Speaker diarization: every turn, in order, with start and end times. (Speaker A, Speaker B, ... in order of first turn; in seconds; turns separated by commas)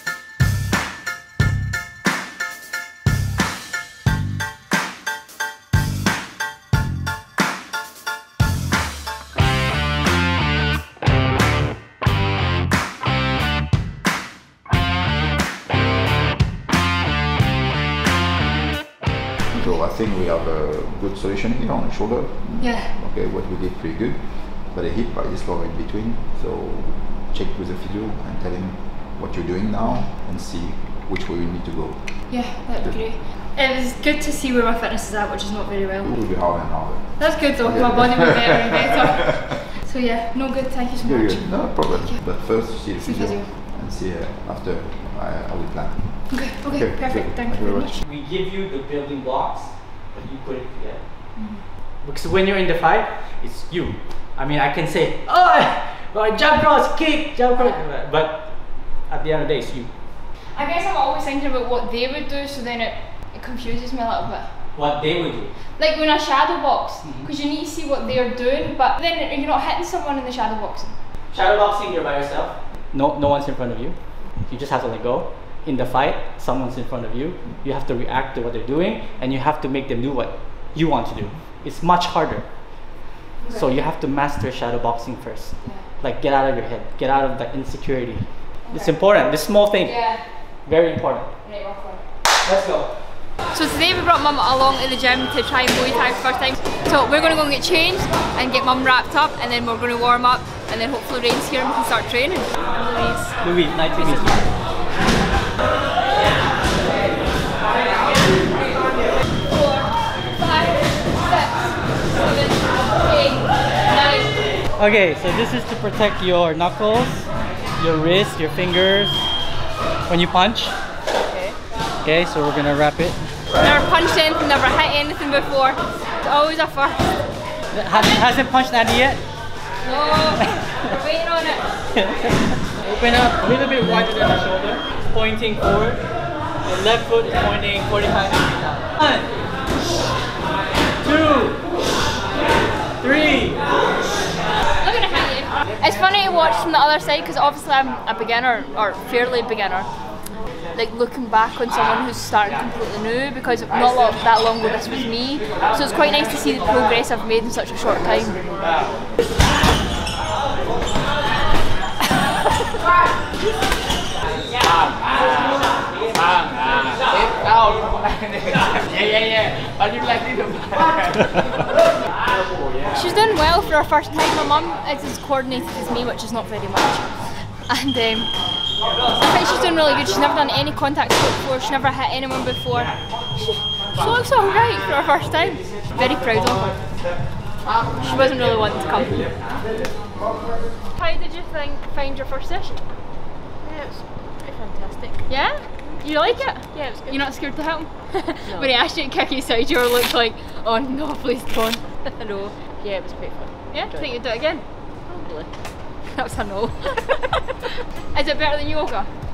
Speaker A: 19.5-33.2, Speaker B: 22.6-22.9, Speaker B: 29.8-30.1, Speaker B: 32.3-43.5, Speaker A: 36.0-39.0, Speaker A: 41.0-48.0, Speaker B: 46.3-48.0, Speaker C: 48.0-59.9, Speaker B: 51.3-51.6, Speaker B: 60.5-64.6, Speaker C: 64.7-65.5, Speaker B: 65.7-71.0, Speaker C: 67.0-67.3, Speaker C: 71.3-91.3, Speaker B: 83.4-83.7, Speaker B: 85.6-85.9, Speaker B: 88.7-88.9, Speaker B: 89.8-90.5, Speaker B: 91.4-92.1, Speaker C: 92.4-92.9, Speaker B: 93.5-103.4, Speaker C: 103.4-104.5, Speaker B: 104.0-104.3, Speaker B: 109.4-114.5, Speaker C: 114.7-119.3, Speaker C: 120.1-120.7, Speaker D: 121.1-121.6, Speaker C: 122.0-123.2, Speaker B: 123.6-127.2, Speaker C: 127.7-129.2, Speaker B: 129.8-131.7, Speaker C: 130.3-130.9, Speaker C: 131.9-136.1, Speaker C: 136.6-139.3, Speaker C: 141.0-141.6, Speaker C: 143.0-143.7, Speaker B: 144.8-149.9, Speaker B: 150.6-158.5, Speaker B: 172.9-178.3, Speaker B: 179.1-187.3, Speaker B: 187.9-189.4, Speaker B: 190.9-192.9, Speaker D: 193.6-197.4, Speaker B: 195.3-202.6, Speaker D: 198.4-198.7, Speaker D: 202.6-204.2, Speaker B: 203.7-204.7, Speaker D: 205.0-205.7, Speaker B: 206.0-209.1